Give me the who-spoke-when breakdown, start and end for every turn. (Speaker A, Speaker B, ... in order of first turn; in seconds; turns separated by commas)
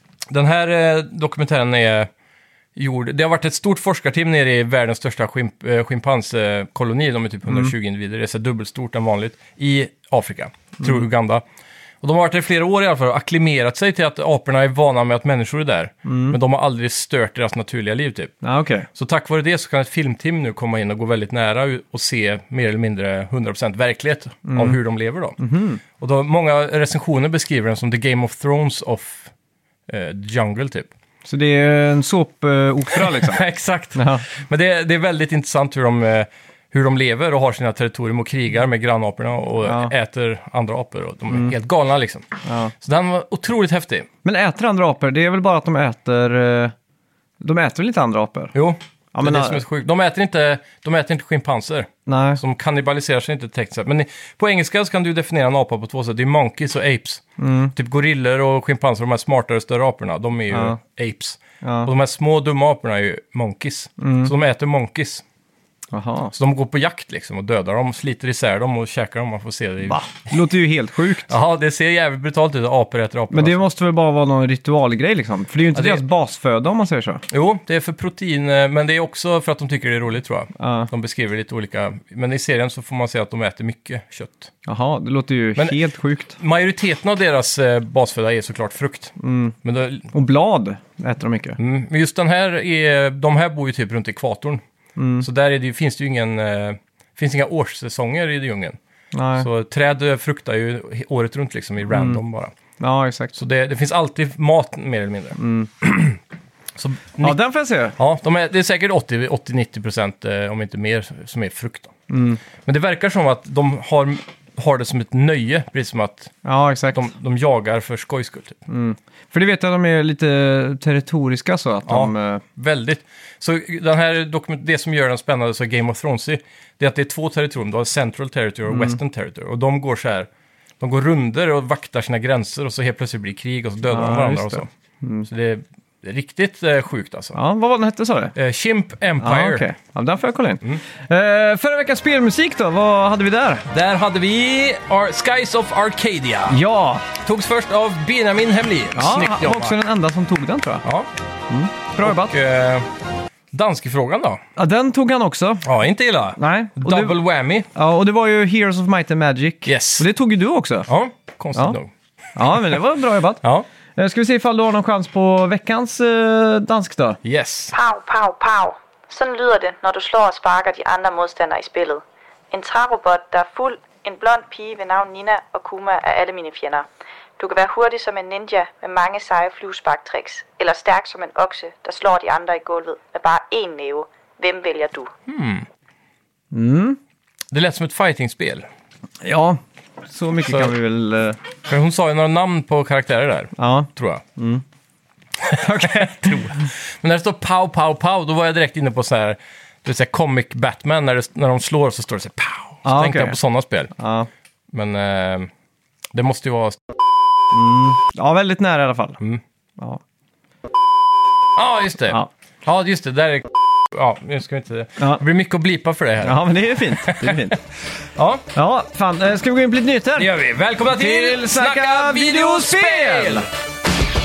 Speaker A: 0.3-2.1, Speaker A: 2.8-11.4, Speaker B: 7.5-7.7, Speaker A: 12.0-18.3, Speaker B: 16.1-16.4, Speaker B: 18.4-18.9, Speaker A: 18.9-25.4, Speaker B: 24.5-24.8, Speaker B: 25.4-25.8, Speaker A: 26.0-29.3, Speaker A: 29.9-30.9, Speaker B: 31.2-33.4, Speaker A: 32.9-42.3, Speaker B: 33.9-34.2, Speaker B: 39.6-39.9, Speaker B: 42.4-42.7, Speaker A: 42.8-44.1, Speaker B: 44.2-46.7, Speaker B: 47.4-48.5, Speaker A: 48.5-57.2, Speaker B: 49.1-49.6, Speaker B: 52.0-52.4, Speaker B: 57.4-57.7, Speaker A: 57.7-65.2, Speaker B: 60.5-60.8, Speaker B: 61.6-61.9, Speaker B: 64.0-64.3, Speaker B: 65.9-66.3, Speaker A: 66.3-70.3, Speaker B: 69.9-71.3, Speaker A: 71.3-73.6, Speaker B: 73.3-77.2, Speaker A: 75.7-76.0, Speaker A: 77.3-84.5, Speaker B: 80.6-80.9, Speaker B: 84.7-86.4, Speaker A: 86.4-90.1, Speaker B: 89.2-89.5, Speaker B: 90.1-91.6, Speaker A: 91.6-94.6, Speaker B: 95.0-95.2, Speaker A: 95.2-98.8, Speaker B: 99.1-99.5, Speaker A: 99.4-102.5, Speaker B: 101.9-102.2, Speaker B: 102.8-103.3, Speaker A: 103.3-106.2, Speaker B: 105.4-105.7, Speaker A: 106.8-107.4, Speaker B: 107.2-108.0, Speaker A: 108.0-111.9, Speaker B: 112.1-112.4, Speaker A: 112.6-116.3, Speaker B: 116.4-117.1, Speaker A: 116.9-118.6, Speaker B: 118.7-122.4, Speaker A: 121.9-130.3, Speaker B: 128.7-129.0, Speaker A: 130.8-134.7, Speaker B: 133.9-135.2, Speaker A: 135.2-137.4, Speaker B: 137.3-138.3, Speaker A: 138.3-139.6, Speaker B: 139.2-143.7, Speaker A: 143.7-146.6, Speaker B: 146.5-147.1, Speaker A: 147.2-149.8, Speaker B: 148.9-150.8, Speaker B: 151.5-152.4, Speaker A: 152.0-152.9, Speaker A: 153.5-154.4, Speaker B: 154.6-155.7, Speaker A: 155.6-157.7, Speaker B: 156.4-157.2, Speaker B: 157.7-160.9, Speaker A: 159.6-160.1, Speaker A: 160.9-161.9, Speaker B: 162.3-163.4, Speaker B: 163.9-167.2, Speaker A: 167.2-167.7, Speaker C: 167.7-176.9, Speaker C: 177.4-185.1, Speaker A: 185.3-185.7, Speaker B: 186.5-187.0, Speaker A: 187.5-188.7, Speaker B: 189.2-191.4, Speaker A: 191.7-194.2, Speaker B: 193.6-194.6, Speaker A: 195.4-203.9, Speaker B: 195.6-196.7, Speaker B: 202.8-203.4, Speaker B: 203.9-204.3, Speaker A: 204.7-205.5, Speaker A: 206.1-206.8, Speaker B: 207.5-209.2, Speaker A: 211.6-217.6, Speaker B: 215.0-215.2, Speaker B: 216.2-217.6, Speaker A: 218.1-218.4, Speaker B: 218.5-220.3, Speaker A: 220.2-223.5, Speaker B: 220.8-223.4